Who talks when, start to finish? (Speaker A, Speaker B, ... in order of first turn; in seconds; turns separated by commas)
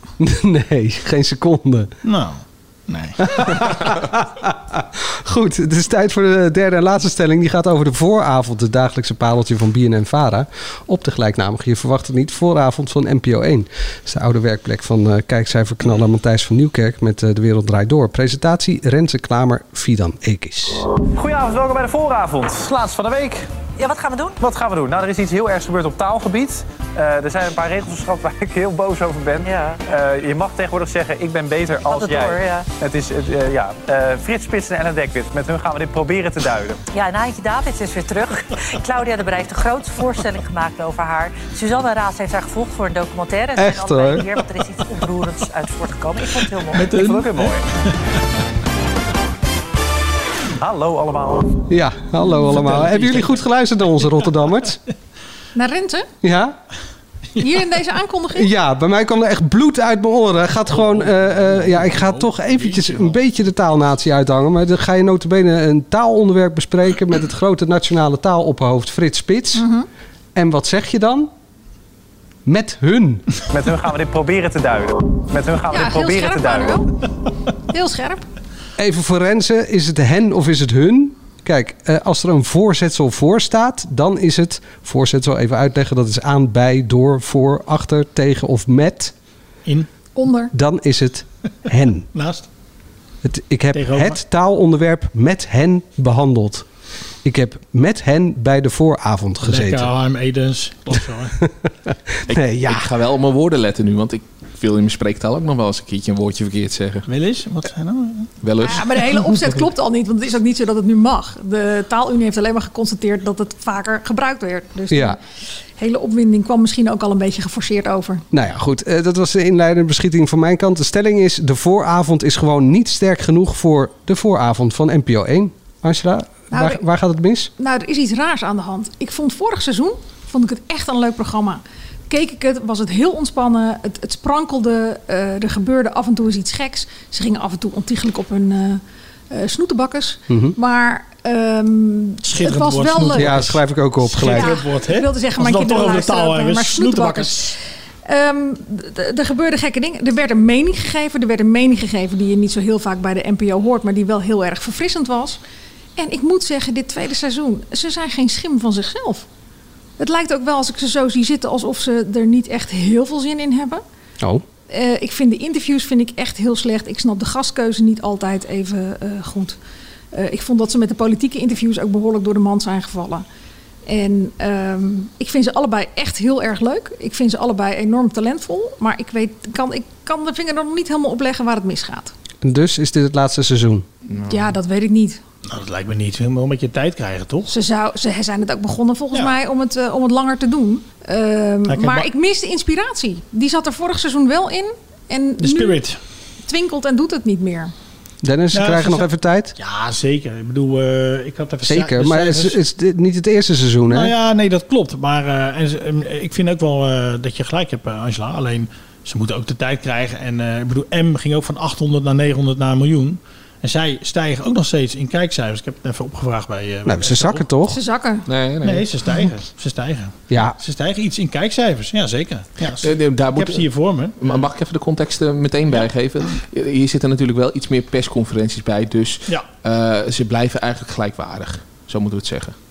Speaker A: 0.2-1.9, Speaker B: 2.0-3.3, Speaker A: 3.2-20.9, Speaker C: 21.1-23.5, Speaker D: 23.8-24.4, Speaker C: 24.4-36.8, Speaker D: 29.4-29.8, Speaker D: 31.9-32.7, Speaker D: 36.9-47.5, Speaker A: 43.5-44.3, Speaker B: 46.3-48.1, Speaker C: 50.6-51.6, Speaker A: 51.7-54.8, Speaker B: 52.3-53.4, Speaker E: 55.5-56.1, Speaker A: 56.2-56.6, Speaker E: 57.4-58.5, Speaker A: 58.3-69.7, Speaker B: 60.7-63.2, Speaker E: 69.5-69.9, Speaker A: 70.3-71.3, Speaker A: 72.5-73.3, Speaker C: 73.5-76.8, Speaker E: 75.7-76.9, Speaker E: 77.7-78.2, Speaker A: 78.8-89.1, Speaker E: 90.2-90.5, Speaker A: 90.5-92.1, Speaker B: 92.1-92.5, Speaker A: 93.2-96.7, Speaker B: 93.7-94.2, Speaker A: 97.2-99.9, Speaker B: 99.4-101.4, Speaker A: 101.4-102.9, Speaker F: 102.3-107.1, Speaker B: 107.1-108.3, Speaker F: 108.4-109.1, Speaker E: 108.6-115.2, Speaker B: 109.3-109.6, Speaker A: 114.9-115.2, Speaker E: 115.8-118.2, Speaker A: 118.3-127.5, Speaker E: 126.5-126.8, Speaker E: 127.6-143.4, Speaker A: 140.3-140.6, Speaker B: 142.2-147.5, Speaker A: 143.2-144.6, Speaker E: 144.2-155.4, Speaker E: 156.0-159.3, Speaker E: 160.0-163.8, Speaker E: 164.7-169.6, Speaker E: 170.1-173.2, Speaker E: 173.9-182.1, Speaker A: 182.4-183.9, Speaker E: 184.3-185.2, Speaker B: 185.5-187.5, Speaker E: 187.5-195.8, Speaker B: 191.7-192.1, Speaker B: 195.4-196.0, Speaker E: 196.5-197.7, Speaker A: 198.2-199.6, Speaker B: 198.5-202.6, Speaker A: 201.7-204.1, Speaker B: 203.9-217.5, Speaker A: 216.9-217.8, Speaker E: 217.7-218.2, Speaker F: 218.3-218.9, Speaker B: 218.6-224.4, Speaker A: 220.3-220.6, Speaker F: 222.8-223.7, Speaker F: 224.2-232.6